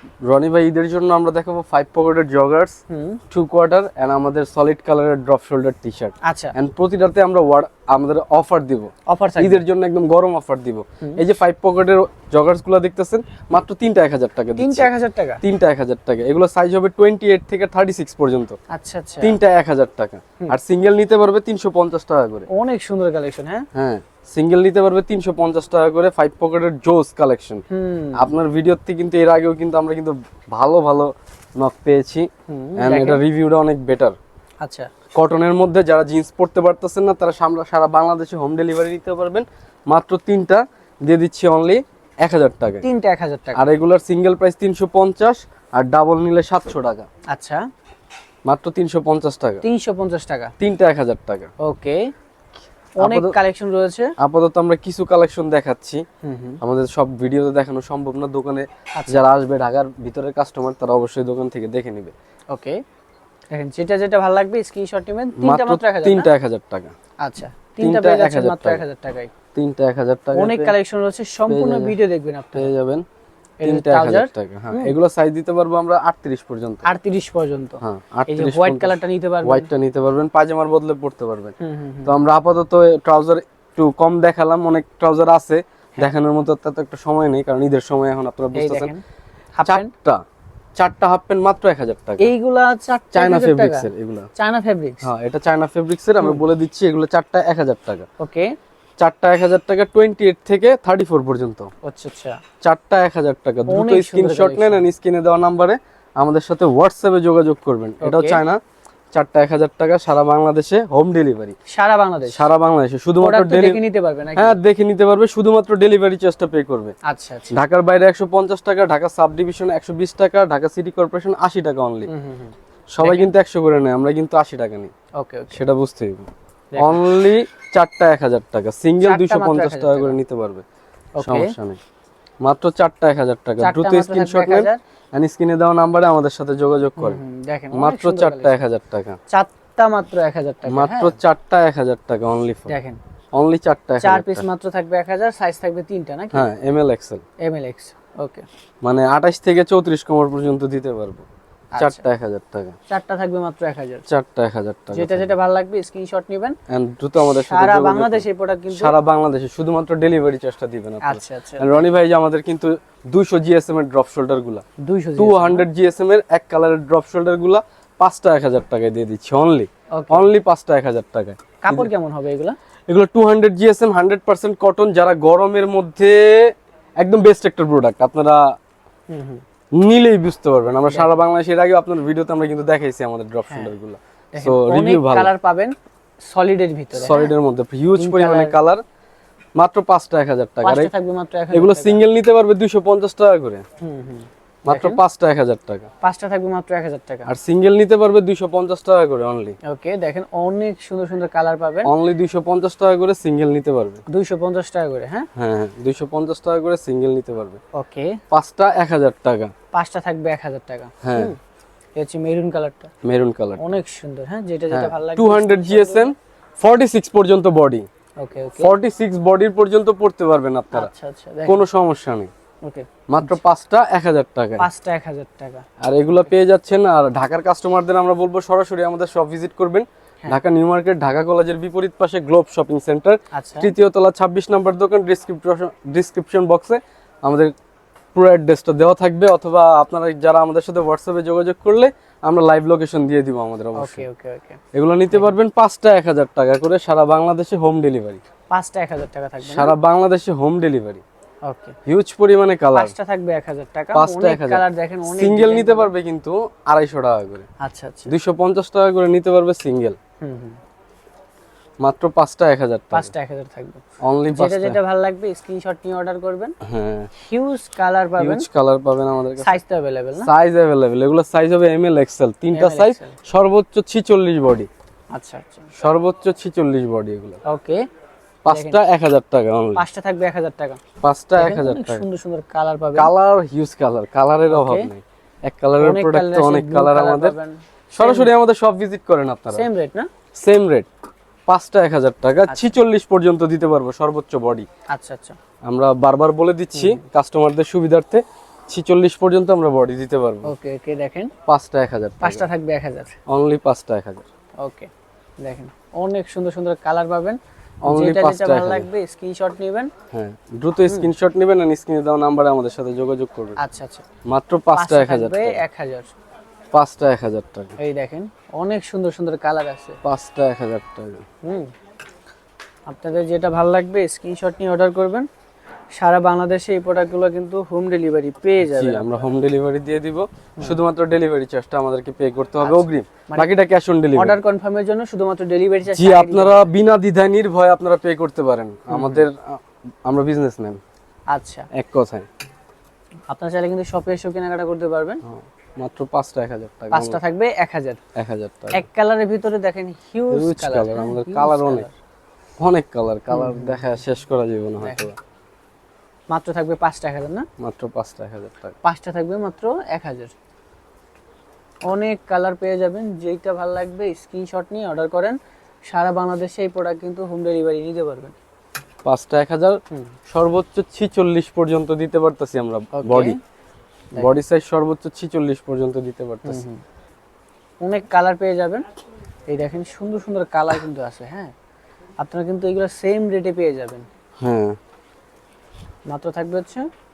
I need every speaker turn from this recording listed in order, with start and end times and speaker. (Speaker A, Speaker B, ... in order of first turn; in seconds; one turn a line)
Speaker A: 0.2-2.8
Speaker B: 2.9-3.2
Speaker A: 3.3-14.9
Speaker B: 6.2-6.5
Speaker B: 9.1-9.6
Speaker B: 14.6-15.4
Speaker A: 15.4-18.6
Speaker B: 18.7-19.4
Speaker A: 19.2-22.5
Speaker B: 22.5-23.7
Speaker A: 23.7-27.6
Speaker B: 27.7-28.3
Speaker A: 28.1-34.2
Speaker B: 32.5-33.2
Speaker B: 34.6-34.9
Speaker A: 35.1-42.8
Speaker B: 42.8-43.6
Speaker A: 43.5-47.1
Speaker B: 47.3-47.7
Speaker A: 48.5-49.6
Speaker B: 49.6-50.5
Speaker A: 50.6-51.5
Speaker B: 51.6-52.1
Speaker B: 53.0-54.1
Speaker A: 53.0-53.4
Speaker A: 54.2-56.0
Speaker B: 56.2-56.6
Speaker A: 56.6-62.1
Speaker B: 58.9-59.2
Speaker B: 62.5-62.8
Speaker B: 63.5-66.3
Speaker A: 65.3-66.9
Speaker B: 67.2-69.3
Speaker A: 67.8-68.8
Speaker A: 69.5-70.7
Speaker B: 70.3-72.7
Speaker A: 71.5-71.9
Speaker A: 72.5-73.0
Speaker B: 73.6-75.0
Speaker A: 73.6-76.8
Speaker B: 76.8-79.7
Speaker A: 77.8-81.5
Speaker B: 81.6-82.2
Speaker A: 82.0-88.9
Speaker B: 88.5-89.0
Speaker B: 89.6-89.9
Speaker A: 89.6-90.2
Speaker A: 90.8-92.3
Speaker B: 92.2-95.1
Speaker A: 93.1-94.3
Speaker A: 95.0-98.1
Speaker B: 98.2-98.6
Speaker A: 99.0-101.7
Speaker B: 101.8-102.4
Speaker A: 102.6-108.6
Speaker B: 103.7-104.8
Speaker B: 108.0-108.4
Speaker A: 109.1-111.6
Speaker B: 111.7-112.5
Speaker A: 112.3-113.8
Speaker B: 113.2-114.6
Speaker A: 114.3-116.9
Speaker B: 117.0-117.6
Speaker A: 117.5-122.1
Speaker B: 122.1-123.3
Speaker A: 122.9-124.9
Speaker B: 125.2-125.6
Speaker A: 125.5-130.6
Speaker B: 126.7-127.0
Speaker B: 129.0-130.2
Speaker B: 131.2-131.5
Speaker A: 131.2-131.8
Speaker A: 132.4-137.2
Speaker B: 133.6-134.8
Speaker B: 137.0-138.6
Speaker A: 137.7-139.2
Speaker B: 139.3-141.2
Speaker A: 140.7-142.7
Speaker B: 142.7-143.0
Speaker A: 143.3-144.4
Speaker B: 144.0-146.5
Speaker A: 146.3-147.2
Speaker B: 147.4-148.4
Speaker A: 148.8-151.2
Speaker B: 151.8-152.0
Speaker A: 151.8-152.8
Speaker B: 152.9-154.0
Speaker A: 154.1-155.3
Speaker B: 154.9-156.6
Speaker A: 156.7-164.6
Speaker B: 157.2-158.9
Speaker B: 161.0-161.8
Speaker B: 164.8-165.7
Speaker A: 165.2-171.9
Speaker B: 169.9-170.3
Speaker B: 171.6-172.6
Speaker A: 172.9-178.5
Speaker B: 179.1-179.4
Speaker A: 179.8-185.3
Speaker B: 180.9-181.2
Speaker B: 184.3-185.8
Speaker B: 186.3-187.3
Speaker A: 186.9-188.8
Speaker B: 187.9-188.6
Speaker A: 189.6-190.9
Speaker B: 190.6-192.0
Speaker A: 191.5-193.6
Speaker B: 193.8-195.0
Speaker A: 194.7-195.9
Speaker B: 196.0-197.3
Speaker A: 197.3-199.6
Speaker B: 199.6-201.9
Speaker A: 201.8-204.0
Speaker B: 204.1-205.3
Speaker A: 205.3-207.6
Speaker B: 207.7-208.2
Speaker A: 208.3-209.5
Speaker B: 209.7-211.4
Speaker A: 211.0-211.3
Speaker B: 212.0-212.9
Speaker A: 213.0-213.7
Speaker B: 213.6-216.1
Speaker A: 214.7-217.9
Speaker B: 218.2-218.7
Speaker A: 218.6-220.9
Speaker B: 220.7-221.6
Speaker A: 221.5-222.3
Speaker B: 222.6-223.4
Speaker A: 223.1-224.7
Speaker B: 224.6-225.7
Speaker A: 225.8-237.5
Speaker B: 233.3-233.7
Speaker A: 238.2-244.0
Speaker B: 243.8-244.6
Speaker A: 244.7-248.2
Speaker B: 248.5-249.8
Speaker A: 249.4-251.0
Speaker B: 251.4-251.7
Speaker A: 251.8-252.9
Speaker B: 252.7-255.9
Speaker A: 253.9-257.5
Speaker B: 257.6-258.1
Speaker A: 258.1-260.0
Speaker B: 260.2-260.6
Speaker A: 261.8-263.1
Speaker B: 262.9-263.8
Speaker A: 264.0-264.8
Speaker B: 264.3-266.5
Speaker A: 266.6-267.1
Speaker B: 267.2-268.5
Speaker A: 268.2-269.6
Speaker B: 269.4-270.3
Speaker A: 270.2-274.7
Speaker B: 272.5-273.2
Speaker B: 275.1-275.7
Speaker A: 275.8-277.4
Speaker B: 277.5-277.8
Speaker A: 278.4-279.8
Speaker B: 278.5-278.8
Speaker B: 279.8-280.8
Speaker A: 281.0-282.0
Speaker B: 281.4-283.1
Speaker A: 282.9-287.4
Speaker B: 284.5-284.9
Speaker B: 285.8-288.3
Speaker A: 287.9-289.6
Speaker B: 289.5-290.1
Speaker A: 290.4-290.9
Speaker A: 291.5-294.7
Speaker B: 292.5-292.7
Speaker B: 294.9-295.4
Speaker A: 295.6-300.5
Speaker B: 296.8-297.0
Speaker B: 300.4-301.3
Speaker A: 301.5-302.5
Speaker B: 302.2-303.2
Speaker A: 303.3-304.2
Speaker B: 304.6-304.9
Speaker B: 305.4-309.9
Speaker A: 307.9-308.9
Speaker A: 310.1-313.6
Speaker B: 313.6-314.0
Speaker A: 314.3-315.6
Speaker B: 314.7-316.1
Speaker A: 316.7-317.8
Speaker B: 317.8-320.0
Speaker A: 320.0-321.2
Speaker B: 321.4-321.7
Speaker B: 322.9-325.3
Speaker B: 325.9-329.3
Speaker A: 328.6-334.4
Speaker B: 332.6-333.5
Speaker B: 334.1-336.7
Speaker A: 335.9-340.8
Speaker B: 338.9-339.2
Speaker B: 341.3-341.7
Speaker A: 341.7-342.3
Speaker B: 343.3-345.2
Speaker A: 345.2-347.2
Speaker B: 346.9-348.0
Speaker A: 348.1-348.9
Speaker B: 348.7-351.9
Speaker A: 350.3-351.9
Speaker A: 352.6-355.2
Speaker B: 353.3-353.8
Speaker B: 354.8-355.1
Speaker B: 356.3-357.5
Speaker A: 357.6-358.8
Speaker B: 358.8-360.3
Speaker B: 361.9-368.4
Speaker A: 369.0-373.4
Speaker B: 372.9-373.4
Speaker A: 374.1-376.6
Speaker B: 376.4-376.8
Speaker B: 377.8-378.9
Speaker B: 379.5-381.5
Speaker B: 382.2-384.1
Speaker A: 384.4-384.8
Speaker B: 386.1-386.9